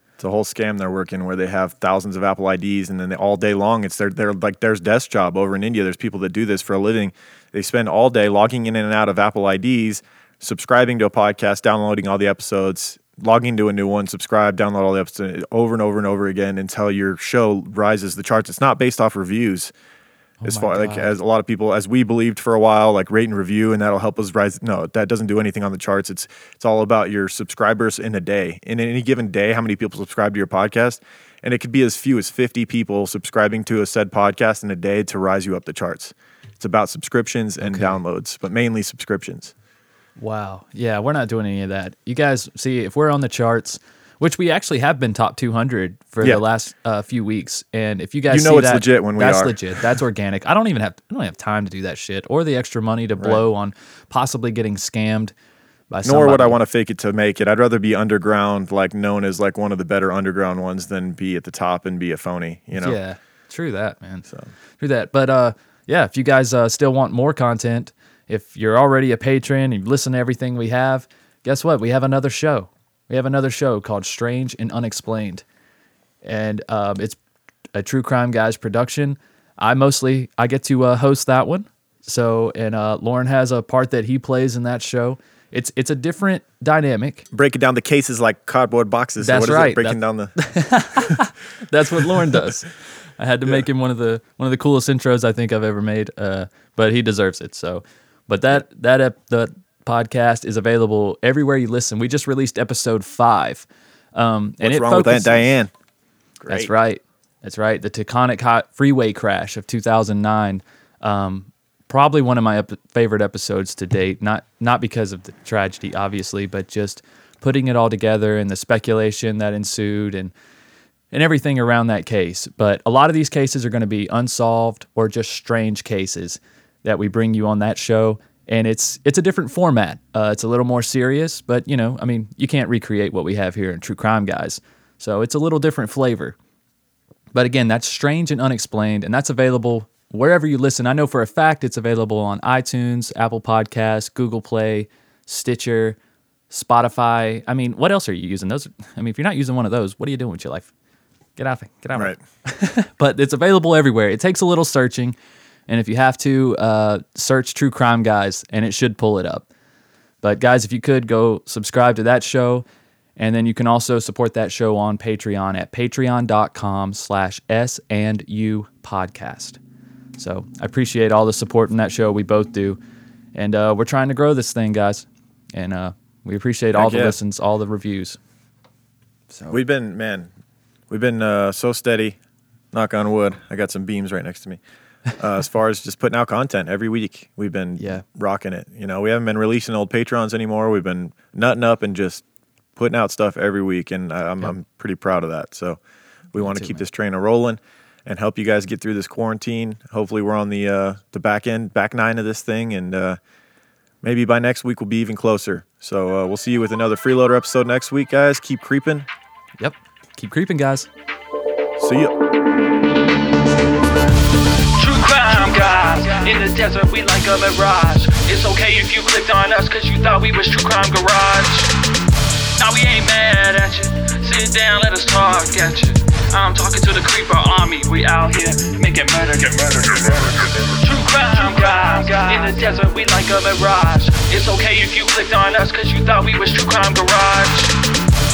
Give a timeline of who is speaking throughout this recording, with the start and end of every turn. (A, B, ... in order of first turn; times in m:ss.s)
0:00.2-0:19.7 A
0:20.4-0:21.1 B
0:20.4-0:39.5 A
0:37.6-0:38.0 B
0:40.2-0:55.3 B
0:48.3-0:49.8 A
0:55.9-0:56.6 B
0:56.0-1:03.0 A
1:02.8-1:04.3 B
1:04.8-1:15.4 B
1:16.2-1:17.2 B
1:17.7-1:27.2 B
1:27.3-1:30.4 A
1:29.2-1:45.5 B
1:44.6-1:45.7 A
1:46.4-1:46.7 A
1:46.5-2:00.3 B
2:01.1-2:16.4 B
2:17.3-2:26.0 B
2:26.5-2:30.7 B
2:31.4-2:35.2 B
2:35.7-2:39.5 B
2:40.2-2:42.6 B
2:43.2-2:49.6 B
2:50.2-2:52.8 B
2:53.3-2:58.2 B
2:56.8-2:57.2 A
2:59.3-2:59.6 B
2:59.5-3:00.3 A
3:00.9-3:02.2 A
3:02.7-3:04.6 A
3:05.2-3:12.2 A
3:12.8-3:15.8 A
3:16.3-3:23.2 A
3:16.4-3:16.8 B
3:24.0-3:29.1 A
3:29.6-3:30.9 B
3:31.8-3:32.1 A
3:34.8-3:41.7 C
3:42.6-3:57.7 C